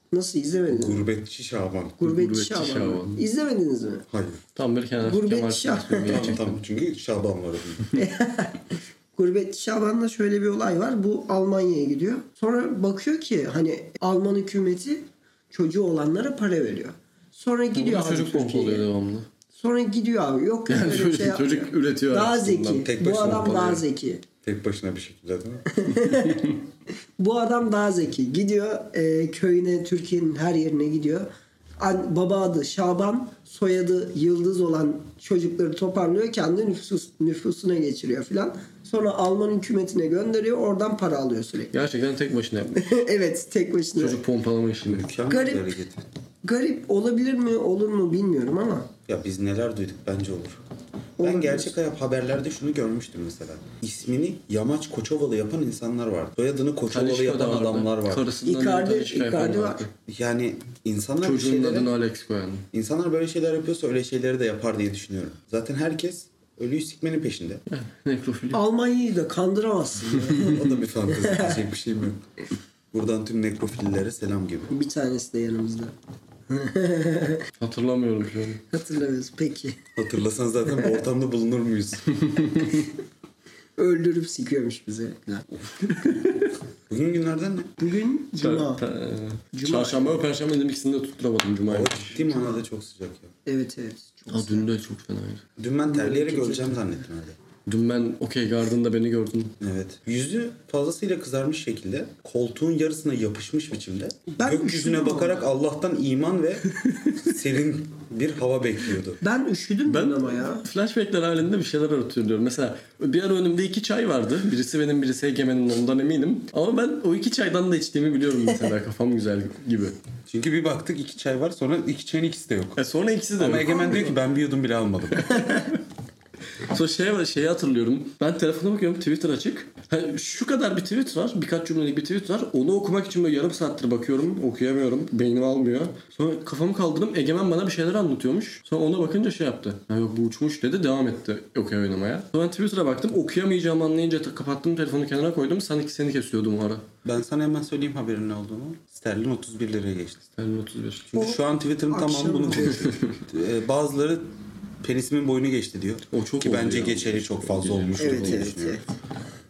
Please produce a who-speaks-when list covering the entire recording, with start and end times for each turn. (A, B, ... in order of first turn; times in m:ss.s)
0:00.1-0:01.0 A
0:00.7-0:02.0 B
0:02.0-0:04.1 A
0:02.0-0:03.2 C
0:04.1-0:04.4 B
0:04.6-0:06.5 C
0:05.0-0:06.3 A
0:06.1-0:07.9 B
0:07.9-0:18.9 A
0:17.7-0:19.3 C
0:19.6-0:24.2 A
0:20.7-0:22.9 C
0:22.8-0:23.8 B
0:24.4-0:25.6 B
0:25.7-0:26.6 A
0:27.2-0:41.7 A
0:41.7-0:43.0 C
0:42.8-0:44.2 A
0:44.0-0:45.1 C
0:44.8-0:46.0 B
0:45.3-0:45.8 A
0:46.4-0:48.9 A
0:49.1-0:50.6 B
0:51.2-0:51.7 A
0:51.2-0:58.3 B
0:56.9-0:59.9 C
0:58.4-0:59.9 A
1:00.1-1:01.9 B
1:01.2-1:02.6 C
1:02.7-1:07.6 B
1:07.7-1:08.6 C
1:08.5-1:11.6 A
1:10.4-1:12.2 B
1:12.9-1:14.7 B
1:14.7-1:15.9 A
1:16.5-1:17.4 A
1:17.6-1:18.6 C
1:18.7-1:19.8 A
1:20.0-1:22.0 B
1:22.3-1:22.7 C
1:23.8-1:26.2 A
1:26.9-1:27.8 B
1:27.8-1:28.8 A
1:28.4-1:32.2 C
1:29.5-1:30.2 A
1:31.7-1:33.3 B
1:33.4-1:34.7 A
1:34.3-1:35.4 C
1:35.6-1:37.4 B
1:35.9-1:36.7 A
1:37.6-1:39.5 C
1:39.6-1:49.2 B
1:44.3-1:45.4 A
1:46.8-1:47.1 C
1:49.2-1:50.6 A
1:49.9-1:59.9 C
2:00.3-2:02.8 B
2:02.8-2:04.0 C
2:03.4-2:05.5 B
2:05.2-2:05.8 C
2:06.6-2:26.8 C
2:27.0-2:30.3 B
2:30.4-2:31.1 C
2:31.1-2:34.3 B
2:31.1-2:32.9 A
2:32.8-2:33.1 C
2:34.8-2:38.8 B
2:36.1-2:38.5 C
2:38.0-2:38.9 A